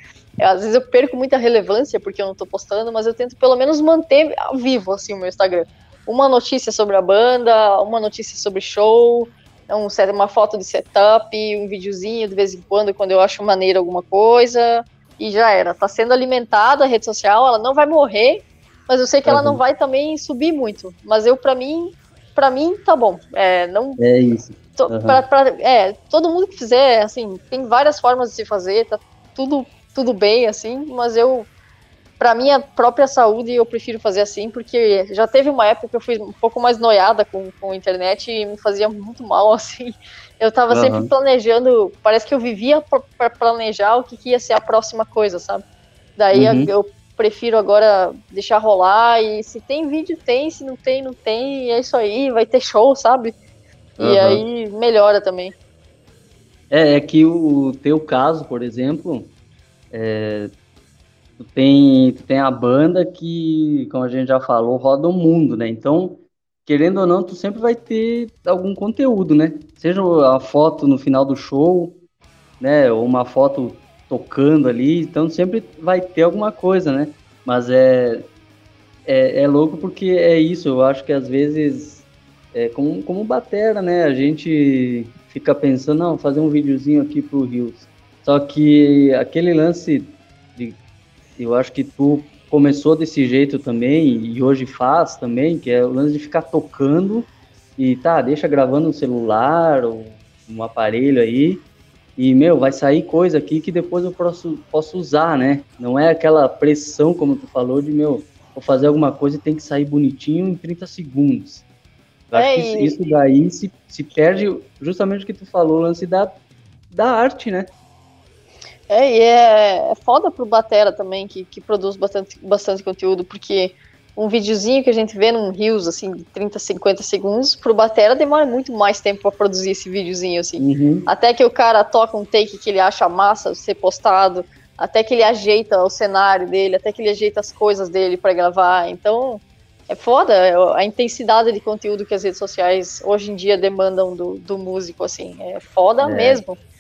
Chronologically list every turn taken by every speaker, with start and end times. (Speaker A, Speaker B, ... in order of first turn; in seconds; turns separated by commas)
Speaker A: 0.4-24.0, Speaker B: 19.3-19.6, Speaker B: 24.0-25.2, Speaker A: 24.8-31.5, Speaker A: 32.2-45.6, Speaker B: 40.7-41.1, Speaker A: 46.2-53.4, Speaker B: 46.3-46.7, Speaker A: 54.0-55.5, Speaker B: 54.0-54.4, Speaker B: 56.7-59.3, Speaker B: 59.9-60.5, Speaker B: 61.4-72.0, Speaker B: 72.6-78.3, Speaker B: 79.1-90.8, Speaker B: 91.4-101.7, Speaker B: 102.2-111.7, Speaker B: 112.3-116.3, Speaker A: 112.3-113.0, Speaker B: 116.9-117.7, Speaker A: 118.9-146.6, Speaker B: 130.6-131.1, Speaker B: 146.0-146.4